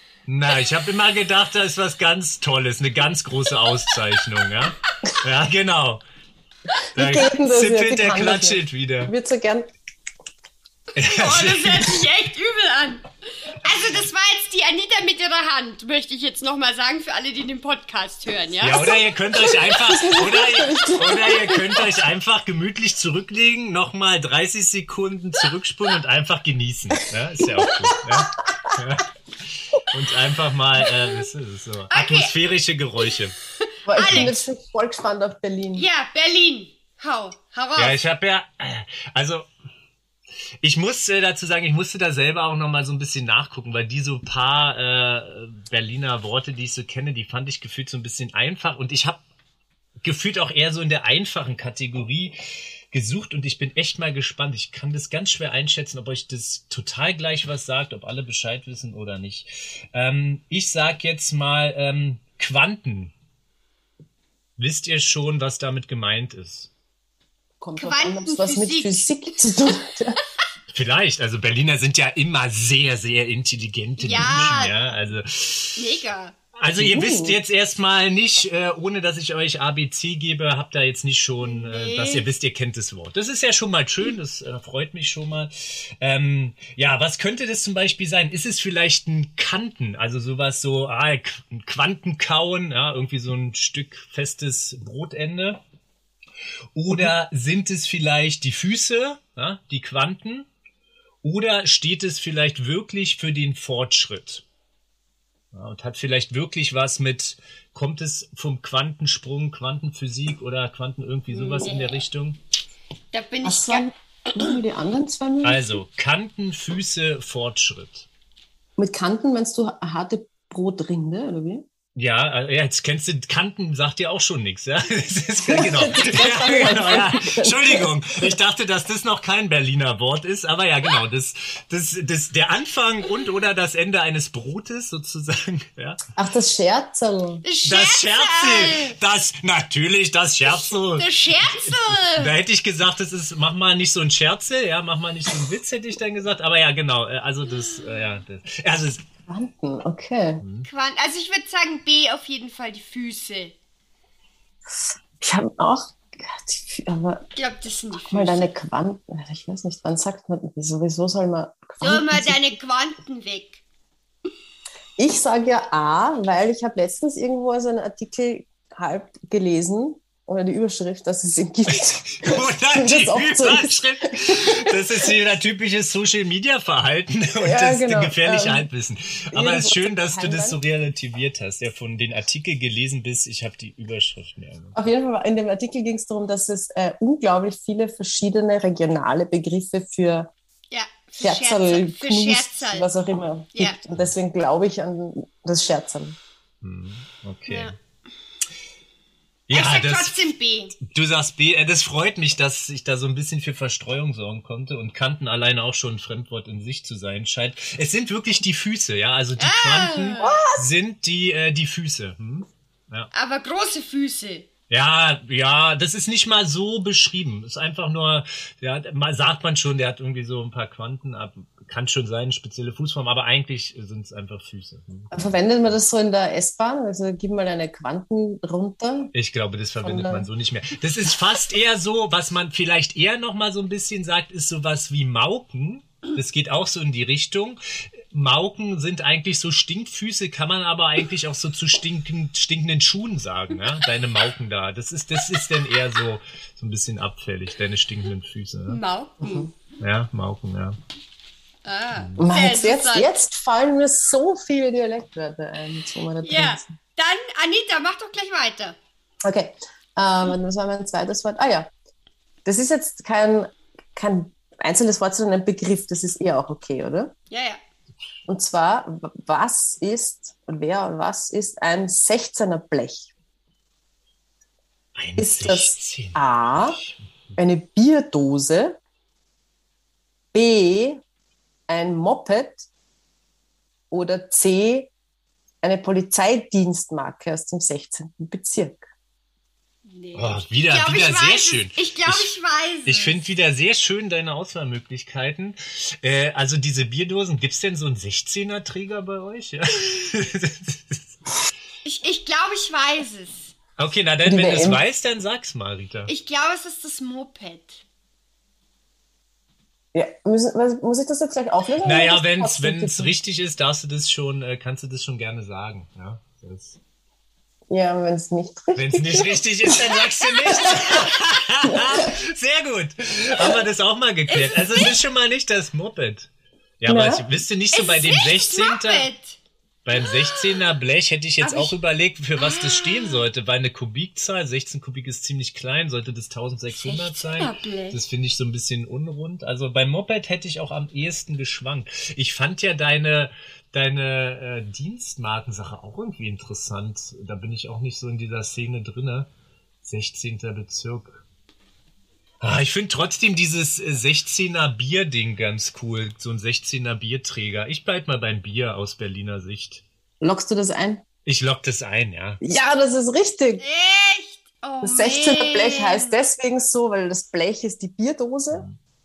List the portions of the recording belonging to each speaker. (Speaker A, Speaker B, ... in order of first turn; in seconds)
Speaker A: 0.3-6.0, 7.0-9.1, 10.9-12.0, 18.6-33.4, 34.1-34.3, 37.8-39.5, 40.6-49.2, 50.0-52.4, 52.9-63.1, 64.6-66.7, 70.7-75.9, 76.6-95.6, 96.8-100.5, 101.2-104.4, 105.5-112.4, 115.4-118.1, 122.0-136.0, 137.7-149.0, 150.4-150.7, 171.7-184.9, 196.6-197.7, 199.5-200.2, 200.8-213.1, 214.7-225.7, 229.2-237.6, 238.1-248.8, 249.8-250.8, 251.9-252.2, 274.9-277.3, 290.1-292.3, 292.9-301.2, 303.8-306.1, 311.8-316.8, 318.8-326.3, 326.8-329.1, 329.9-349.3, 349.8-351.2, 352.4-359.8, 361.3-362.4, 368.5-368.8
Speaker B: 7.0-9.7, 19.8-21.9, 27.5-28.2, 33.9-35.9, 67.6-70.2, 76.8-77.4, 113.4-115.6, 118.8-121.7, 125.4-128.4, 136.2-137.4, 149.3-150.4, 154.7-157.3, 158.1-162.4, 165.0-175.1, 177.4-178.7, 179.3-180.6, 184.8-190.3, 191.2-196.2, 210.2-210.7, 225.1-229.1, 229.8-230.3, 249.2-249.5, 252.2-256.7, 259.2-261.7, 262.4-267.1, 268.3-273.1, 275.2-276.8, 277.4-278.8, 280.3-281.0, 281.7-282.7, 283.9-284.9, 285.6-288.9, 304.2-304.8, 309.9-313.1, 317.7-319.9, 320.6-321.1, 321.7-322.1, 326.9-327.2, 360.2-361.0, 362.4-363.6, 364.8-368.7
Speaker C: 11.1-19.0, 31.9-32.4, 33.9-34.3, 35.8-38.0, 67.8-69.1, 74.0-74.8, 75.8-76.4, 81.4-82.3, 111.3-112.0, 113.1-113.9, 137.4-138.9, 140.7-142.3, 147.6-148.0, 150.7-153.6, 157.4-158.5, 161.8-163.6, 190.7-192.9, 197.5-197.8, 199.5-200.8, 209.4-210.3, 213.1-214.5, 248.7-249.5, 251.7-253.1, 256.2-258.8, 267.3-267.6, 289.9-293.2, 301.9-303.6, 306.1-307.8, 320.6-321.2, 324.4-324.9, 327.7-329.4, 329.9-330.8, 331.4-331.8, 332.4-333.3, 336.8-338.0, 363.6-366.1